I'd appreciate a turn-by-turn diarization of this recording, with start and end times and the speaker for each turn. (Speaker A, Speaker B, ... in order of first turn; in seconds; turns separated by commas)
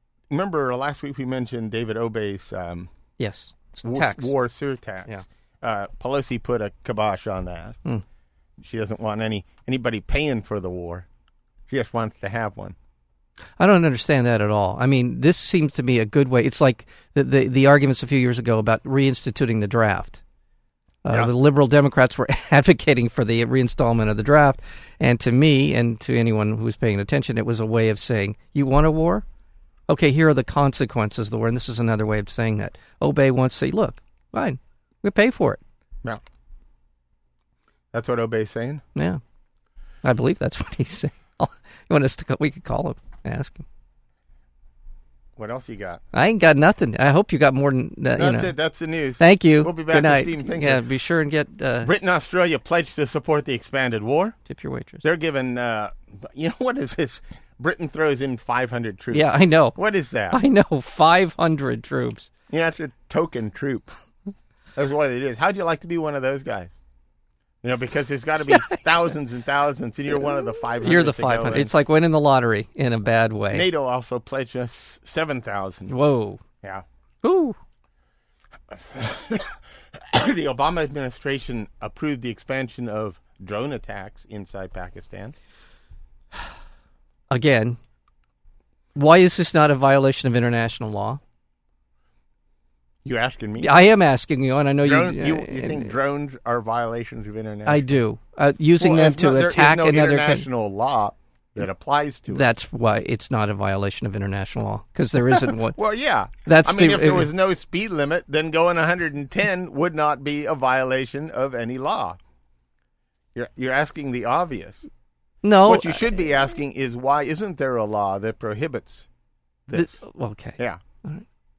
Speaker A: 0.3-2.9, Speaker B: 3.2-4.3, Speaker A: 3.8-7.8, Speaker A: 8.6-11.1, Speaker A: 11.7-12.7, Speaker B: 13.6-20.2, Speaker B: 21.0-29.2, Speaker B: 29.9-35.6, Speaker A: 37.9-38.8, Speaker B: 38.9-39.2, Speaker B: 40.0-43.6, Speaker A: 45.4-46.0, Speaker B: 46.1-48.5, Speaker A: 48.1-50.8, Speaker B: 49.2-51.9, Speaker A: 51.8-54.4, Speaker B: 54.5-55.0, Speaker A: 55.0-60.4, Speaker B: 59.1-59.8, Speaker B: 60.3-62.3, Speaker A: 62.5-63.9, Speaker A: 64.8-66.8, Speaker A: 67.6-71.7, Speaker B: 68.5-68.8, Speaker B: 70.8-73.7, Speaker A: 73.5-75.9, Speaker B: 75.9-76.4, Speaker B: 77.2-77.6, Speaker A: 78.7-85.3, Speaker B: 87.3-87.8, Speaker B: 88.9-91.2, Speaker A: 93.0-93.8, Speaker B: 93.6-95.9, Speaker A: 94.8-98.0, Speaker B: 97.7-100.5, Speaker A: 98.8-102.5, Speaker B: 102.3-105.8, Speaker A: 105.3-112.2, Speaker B: 106.4-107.3, Speaker A: 113.3-114.9, Speaker B: 115.4-116.0, Speaker A: 115.6-119.1, Speaker A: 119.7-120.0, Speaker B: 119.7-121.2